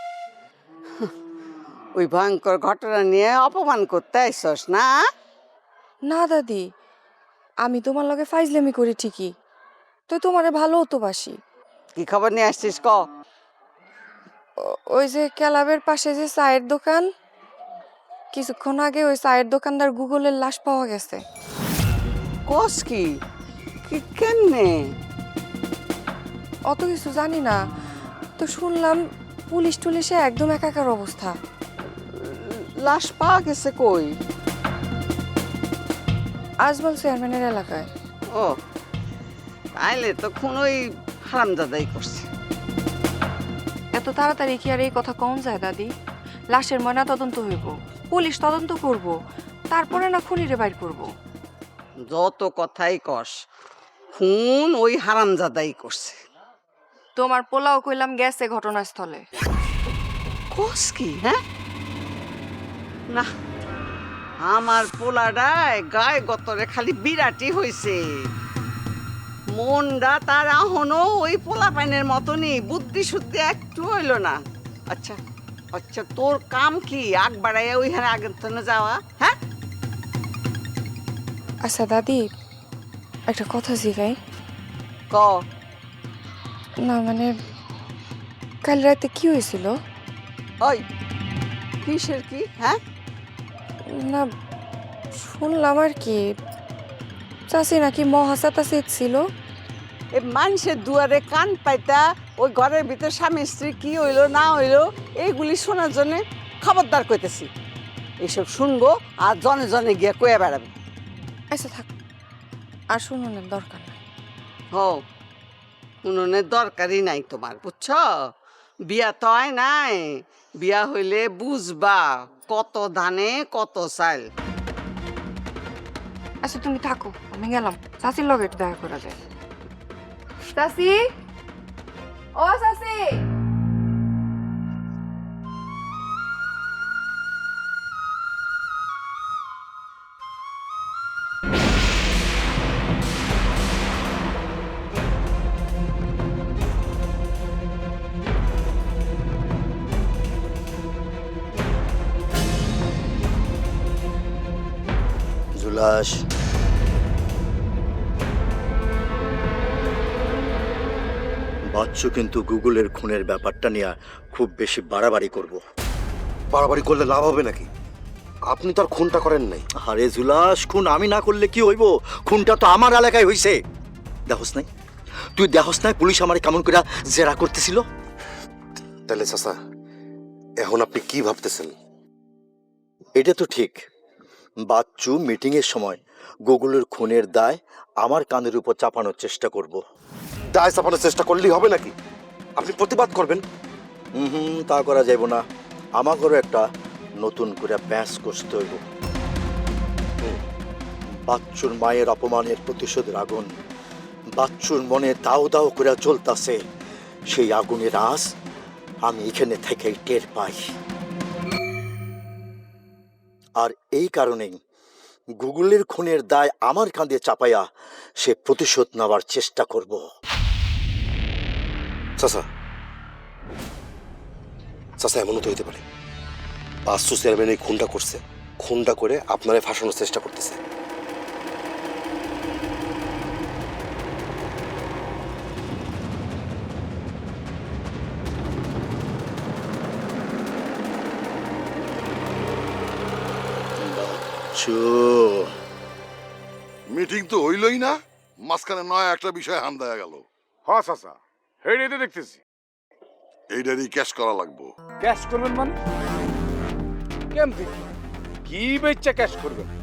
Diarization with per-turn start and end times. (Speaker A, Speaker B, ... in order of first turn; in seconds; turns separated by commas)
Speaker A: 1.9-4.9, Speaker B: 6.1-6.7, Speaker B: 7.6-9.3, Speaker B: 10.1-11.3, Speaker A: 11.9-13.0, Speaker B: 15.0-17.1, Speaker B: 18.3-21.2, Speaker A: 22.5-23.1, Speaker A: 23.9-24.9, Speaker B: 26.7-27.6, Speaker B: 28.4-29.0, Speaker B: 29.5-31.3, Speaker A: 32.2-34.1, Speaker B: 36.6-37.9, Speaker A: 39.8-42.2, Speaker B: 43.9-45.9, Speaker B: 46.5-49.1, Speaker B: 49.7-51.0, Speaker A: 52.1-53.3, Speaker A: 54.1-56.2, Speaker B: 57.2-59.2, Speaker A: 60.5-61.4, Speaker A: 64.4-68.0, Speaker A: 69.5-74.4, Speaker A: 74.9-75.2, Speaker A: 75.7-79.3, Speaker B: 81.6-82.2, Speaker B: 83.3-84.2, Speaker A: 85.1-85.3, Speaker B: 86.8-87.3, Speaker B: 88.6-89.7, Speaker A: 91.8-92.8, Speaker B: 94.0-94.2, Speaker B: 95.2-96.2, Speaker B: 97.5-99.2, Speaker A: 100.2-107.5, Speaker A: 108.2-110.7, Speaker B: 111.5-111.9, Speaker B: 112.9-114.0, Speaker A: 116.0-118.0, Speaker A: 118.9-120.0, Speaker A: 120.6-124.2, Speaker B: 126.4-129.1, Speaker B: 130.5-130.9, Speaker B: 132.4-133.1, Speaker C: 155.6-156.1, Speaker C: 161.8-165.6, Speaker D: 166.5-167.7, Speaker D: 168.5-169.7, Speaker C: 169.8-173.6, Speaker C: 174.3-174.7, Speaker C: 175.3-177.8, Speaker D: 179.1-179.6, Speaker D: 180.6-181.7, Speaker C: 183.2-183.8, Speaker C: 184.7-189.8, Speaker D: 190.6-191.9, Speaker D: 192.6-193.4, Speaker C: 194.2-195.4, Speaker C: 196.0-196.6, Speaker C: 197.2-198.8, Speaker C: 201.3-203.5, Speaker C: 204.4-206.6, Speaker C: 207.3-208.2, Speaker C: 209.0-210.6, Speaker C: 213.6-214.6, Speaker C: 215.4-217.7, Speaker C: 218.2-220.0, Speaker D: 222.2-222.4, Speaker D: 225.0-225.8, Speaker D: 226.8-230.6, Speaker C: 243.8-245.5, Speaker E: 246.9-247.9, Speaker E: 248.5-250.2, Speaker F: 250.7-252.4, Speaker E: 253.5-254.7, Speaker F: 255.0-255.7, Speaker F: 257.3-257.9, Speaker F: 258.4-259.7